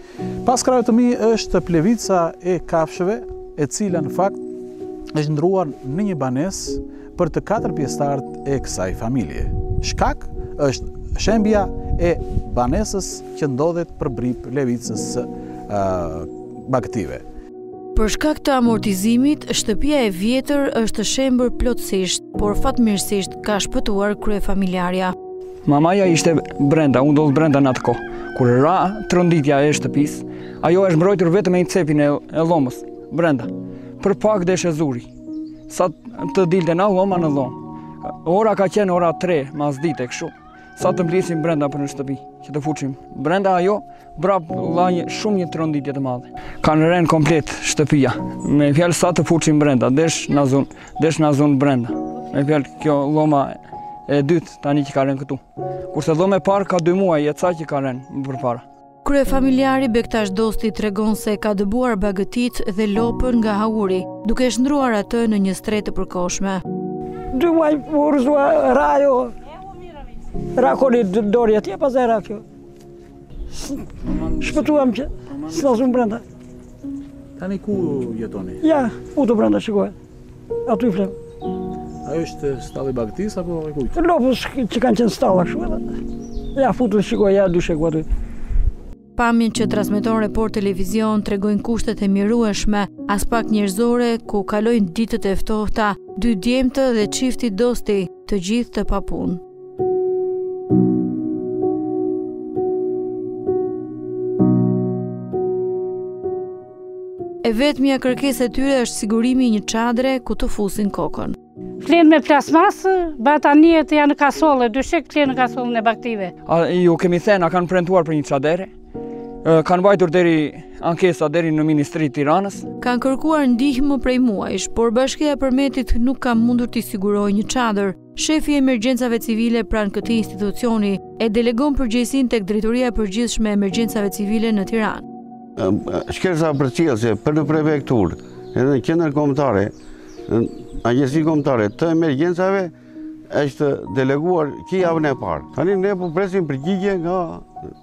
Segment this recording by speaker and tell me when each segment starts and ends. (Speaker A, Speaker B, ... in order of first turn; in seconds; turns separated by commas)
Speaker A: 0.4-4.4, Speaker A: 5.1-17.2, Speaker B: 17.9-25.1, Speaker C: 25.6-33.5, Speaker C: 34.0-35.1, Speaker C: 35.7-53.6, Speaker C: 54.1-58.6, Speaker B: 59.0-66.6, Speaker D: 67.3-69.3, Speaker D: 70.5-72.4, Speaker C: 74.0-75.6, Speaker D: 74.4-76.2, Speaker A: 77.4-78.6, Speaker D: 78.6-79.9, Speaker D: 80.7-81.1, Speaker A: 82.0-83.9, Speaker D: 84.0-85.9, Speaker D: 86.5-88.0, Speaker B: 89.2-99.4, Speaker B: 107.4-111.3, Speaker E: 111.8-116.3, Speaker C: 116.5-118.7, Speaker C: 119.4-122.7, Speaker B: 122.8-135.0, Speaker F: 135.6-139.7, Speaker F: 140.3-142.7, Speaker F: 143.3-147.5